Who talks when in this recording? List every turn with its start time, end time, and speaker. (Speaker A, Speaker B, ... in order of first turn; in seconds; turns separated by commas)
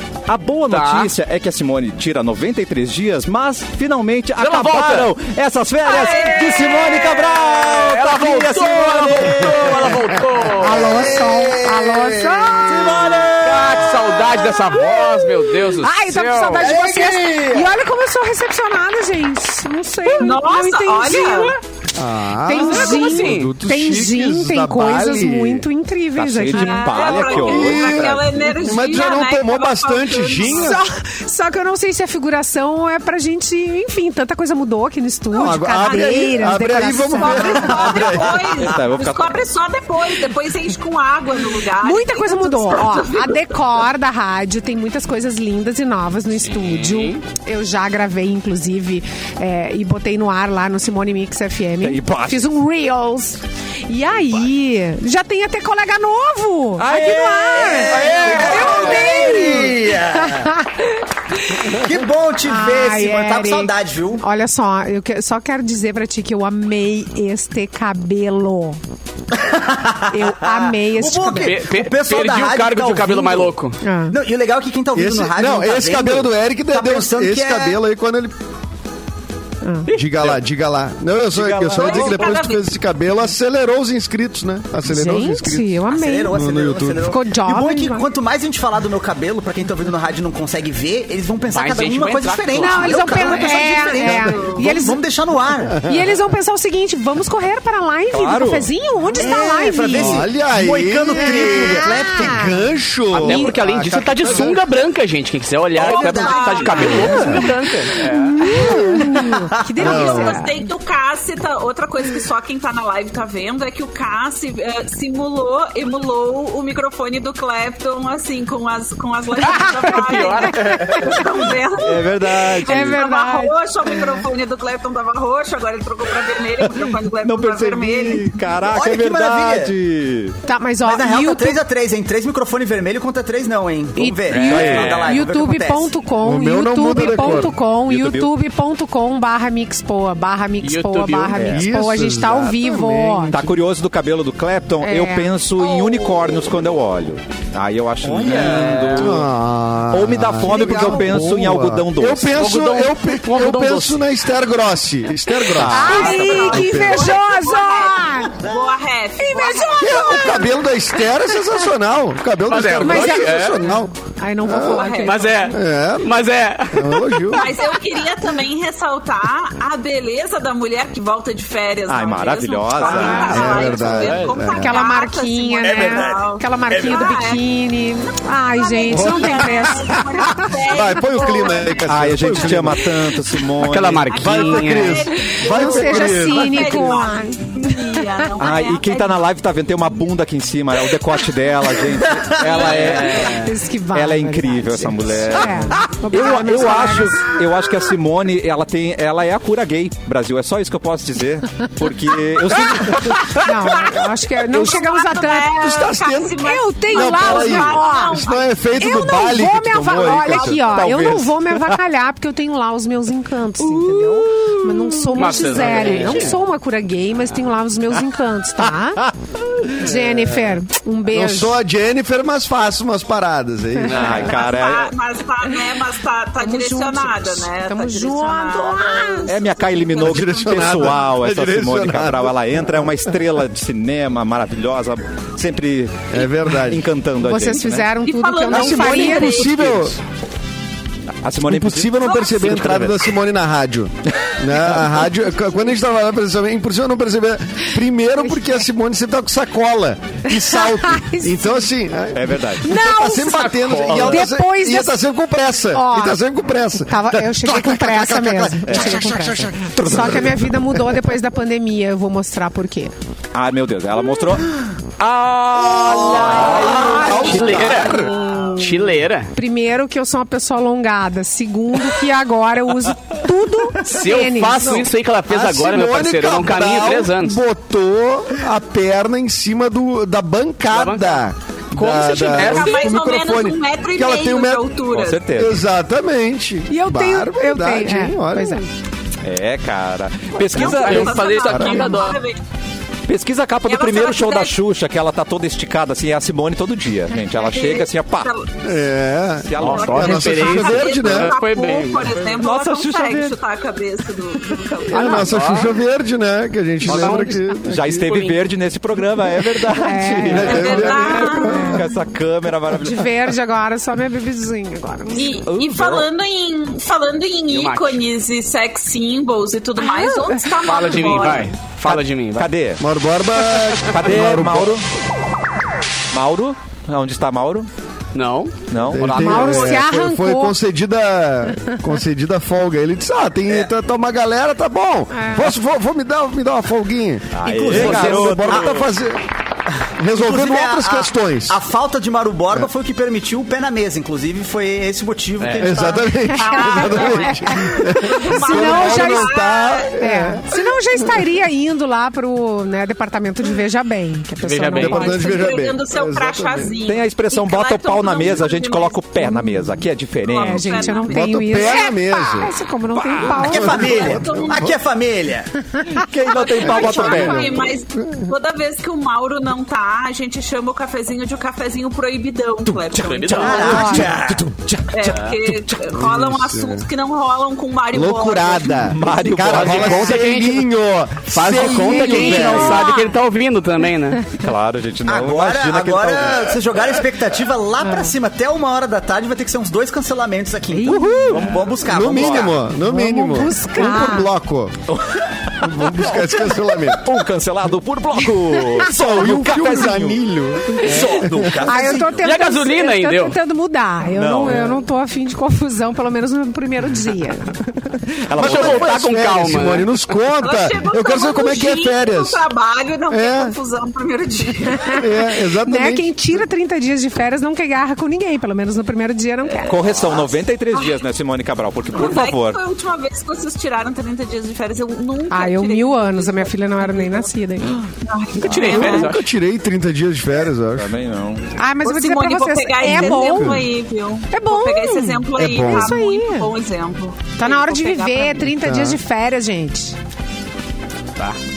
Speaker A: 0.3-10.2, Speaker B: 0.7-1.1, Speaker B: 4.4-5.1, Speaker C: 5.8-7.3, Speaker B: 7.5-10.9, Speaker D: 10.6-13.0, Speaker E: 10.8-14.9, Speaker F: 10.9-12.5, Speaker A: 12.7-13.4, Speaker B: 13.2-16.7, Speaker D: 14.8-21.6, Speaker E: 16.6-17.7, Speaker C: 20.2-21.5, Speaker F: 21.9-25.7, Speaker D: 22.5-27.0, Speaker B: 22.5-23.6, Speaker A: 26.2-28.4, Speaker C: 26.5-30.8, Speaker F: 27.4-30.8, Speaker D: 30.5-37.6, Speaker F: 35.3-38.5, Speaker C: 35.8-43.6, Speaker E: 37.6-38.7, Speaker A: 38.5-39.4, Speaker D: 41.8-60.9, Speaker B: 46.4-47.2, Speaker A: 51.8-52.5, Speaker A: 56.8-58.0, Speaker E: 57.5-60.6, Speaker B: 58.1-59.1, Speaker D: 61.5-61.8, Speaker E: 61.6-64.2, Speaker D: 62.4-68.8, Speaker E: 69.3-73.5, Speaker D: 70.1-71.6, Speaker B: 71.3-73.8, Speaker D: 73.8-74.2, Speaker E: 74.1-77.8, Speaker F: 74.9-78.3, Speaker D: 79.6-79.9, Speaker B: 79.9-80.3, Speaker F: 79.9-85.8, Speaker A: 81.3-82.3, Speaker C: 81.8-82.8, Speaker D: 84.8-86.4, Speaker E: 85.9-95.8, Speaker F: 86.3-87.1, Speaker D: 87.0-88.1, Speaker B: 91.5-93.7, Speaker D: 92.5-95.0, Speaker F: 95.7-96.2, Speaker D: 95.8-100.3, Speaker A: 98.1-98.7, Speaker E: 99.2-102.5, Speaker F: 99.9-104.6, Speaker D: 101.1-102.6, Speaker B: 103.1-108.5, Speaker E: 105.7-107.4, Speaker C: 105.8-107.5, Speaker D: 107.1-107.3, Speaker D: 108.0-110.7, Speaker E: 108.5-110.0, Speaker F: 108.5-109.1, Speaker C: 109.8-128.4, Speaker F: 109.8-110.4, Speaker B: 119.4-121.4, Speaker D: 119.4-121.3, Speaker A: 121.8-123.0, Speaker D: 122.5-124.2, Speaker A: 126.6-130.4, Speaker E: 128.6-129.8, Speaker D: 130.4-131.6, Speaker E: 130.8-135.9, Speaker D: 134.0-143.4, Speaker B: 134.3-135.2, Speaker A: 134.4-135.0, Speaker F: 136.2-137.5, Speaker A: 136.9-138.3, Speaker B: 140.6-141.5, Speaker A: 141.3-141.7, Speaker F: 141.5-143.6, Speaker A: 143.3-149.3, Speaker D: 144.8-145.7, Speaker E: 148.0-149.0, Speaker B: 148.1-149.2, Speaker F: 148.9-157.1, Speaker A: 149.9-152.4, Speaker E: 150.5-151.1, Speaker B: 152.3-154.0, Speaker A: 155.4-156.4, Speaker D: 155.6-158.4, Speaker C: 155.8-160.5, Speaker D: 159.2-161.4, Speaker F: 159.8-163.9, Speaker B: 162.5-163.7, Speaker D: 162.8-165.3, Speaker F: 164.4-164.9, Speaker C: 164.5-165.6, Speaker B: 165.0-167.4, Speaker F: 165.5-166.1, Speaker F: 166.7-167.5, Speaker C: 167.3-177.4, Speaker A: 171.9-173.6, Speaker D: 172.8-173.5, Speaker B: 172.8-174.4, Speaker F: 173.3-174.8, Speaker D: 174.4-180.4, Speaker E: 175.6-177.1, Speaker C: 178.6-181.7, Speaker F: 178.9-183.2, Speaker A: 181.8-184.2, Speaker B: 183.6-185.0, Speaker C: 184.1-189.2, Speaker F: 184.2-187.0, Speaker D: 185.4-188.0, Speaker A: 188.4-203.8, Speaker E: 191.9-192.9, Speaker B: 192.4-193.6, Speaker C: 192.6-193.2, Speaker D: 193.2-197.4, Speaker D: 203.2-205.6, Speaker C: 203.9-208.9, Speaker F: 205.6-206.4, Speaker D: 206.4-208.2, Speaker F: 206.9-210.6, Speaker D: 208.8-219.1, Speaker C: 210.0-210.8, Speaker A: 210.7-211.8, Speaker B: 215.1-216.4, Speaker A: 219.0-219.8, Speaker D: 219.7-221.6, Speaker F: 219.8-220.6, Speaker F: 221.1-224.4, Speaker A: 223.8-224.9, Speaker C: 224.1-231.0, Speaker D: 226.4-229.3, Speaker A: 229.3-237.9, Speaker F: 230.0-233.1, Speaker F: 236.1-236.9, Speaker D: 237.2-239.5, Speaker C: 238.1-239.9, Speaker F: 238.5-240.0, Speaker A: 241.2-243.0, Speaker F: 241.4-260.4, Speaker C: 242.1-242.5, Speaker A: 244.2-245.0, Speaker D: 250.3-251.7, Speaker A: 252.1-252.7, Speaker D: 252.6-255.0, Speaker B: 253.2-254.3, Speaker D: 255.7-256.2, Speaker D: 256.9-262.9, Speaker A: 258.7-260.3, Speaker E: 258.8-259.5, Speaker A: 263.3-267.6, Speaker E: 265.7-267.1, Speaker B: 266.0-269.3, Speaker F: 266.1-268.1, Speaker D: 266.6-268.6, Speaker D: 269.3-274.8, Speaker B: 273.8-277.4, Speaker F: 274.6-284.7, Speaker B: 280.7-281.2, Speaker B: 281.7-282.9, Speaker C: 281.9-285.3, Speaker A: 284.9-285.6, Speaker F: 285.4-288.6, Speaker D: 286.7-288.7, Speaker A: 289.2-291.4, Speaker B: 290.4-292.2, Speaker C: 290.5-292.4, Speaker F: 291.5-291.9, Speaker A: 293.1-298.3, Speaker C: 293.7-294.6, Speaker C: 297.3-298.6, Speaker F: 298.6-301.3, Speaker A: 299.4-300.2, Speaker B: 299.6-302.2, Speaker C: 299.6-305.3, Speaker A: 302.3-303.4, Speaker F: 304.9-308.1, Speaker B: 304.9-305.7, Speaker B: 306.8-308.4, Speaker A: 306.9-313.1, Speaker D: 309.8-311.8, Speaker F: 310.3-311.9, Speaker C: 310.4-311.7, Speaker D: 312.7-315.4, Speaker C: 315.1-321.6, Speaker A: 315.5-316.1, Speaker B: 317.5-318.0, Speaker D: 319.8-320.5, Speaker B: 320.6-322.5, Speaker A: 321.8-322.8, Speaker F: 322.8-324.8, Speaker A: 323.9-324.8, Speaker A: 326.1-327.7, Speaker B: 328.1-329.8, Speaker A: 328.7-329.5, Speaker F: 328.9-339.2, Speaker D: 329.2-330.6, Speaker D: 335.1-335.5, Speaker A: 337.3-338.9, Speaker E: 337.4-338.7, Speaker B: 337.7-338.4, Speaker F: 340.0-341.6, Speaker E: 340.1-346.1, Speaker B: 345.4-346.0, Speaker F: 345.6-351.3, Speaker D: 346.3-347.7, Speaker C: 346.4-350.0, Speaker D: 348.3-349.3, Speaker D: 350.0-355.4, Speaker B: 354.4-355.2, Speaker F: 354.8-356.7, Speaker C: 354.9-359.1, Speaker A: 356.9-361.0, Speaker C: 360.2-361.9, Speaker D: 360.4-364.2, Speaker F: 361.0-362.5, Speaker A: 362.9-363.7, Speaker E: 363.3-365.5, Speaker F: 363.4-364.8, Speaker C: 363.7-364.7, Speaker A: 365.9-367.7, Speaker C: 366.3-373.8, Speaker F: 366.6-368.3, Speaker D: 367.0-367.4, Speaker A: 372.7-375.7, Speaker B: 373.0-373.9, Speaker E: 373.4-374.4, Speaker D: 373.6-374.1, Speaker C: 374.9-378.9, Speaker F: 375.9-376.9, Speaker F: 377.9-382.9, Speaker A: 378.8-380.3, Speaker B: 379.5-380.7, Speaker B: 381.3-384.3, Speaker A: 381.5-382.8, Speaker D: 381.6-383.2, Speaker A: 384.3-386.6, Speaker E: 385.1-392.6, Speaker D: 387.8-388.1, Speaker D: 390.7-391.5, Speaker A: 390.9-392.5, Speaker F: 391.8-394.8, Speaker D: 392.8-394.3, Speaker A: 394.9-400.2, Speaker F: 395.6-397.0, Speaker D: 398.5-398.9, Speaker F: 398.8-401.6, Speaker E: 400.8-402.3, Speaker D: 401.6-407.8, Speaker B: 402.2-403.4, Speaker A: 404.1-404.8, Speaker A: 408.3-409.0, Speaker F: 408.4-412.4, Speaker B: 408.4-410.0, Speaker C: 410.4-415.0, Speaker F: 413.1-413.6, Speaker F: 414.9-416.4, Speaker D: 415.6-420.0, Speaker A: 419.6-422.6, Speaker C: 420.7-421.0, Speaker C: 421.9-427.3, Speaker D: 425.3-427.8, Speaker C: 428.0-429.1, Speaker B: 428.4-429.3, Speaker F: 428.5-430.9, Speaker A: 430.8-431.5, Speaker D: 431.6-433.6, Speaker C: 431.9-438.5, Speaker F: 432.9-433.7, Speaker D: 434.3-436.5, Speaker F: 435.4-436.0, Speaker D: 437.4-440.0, Speaker F: 438.6-439.0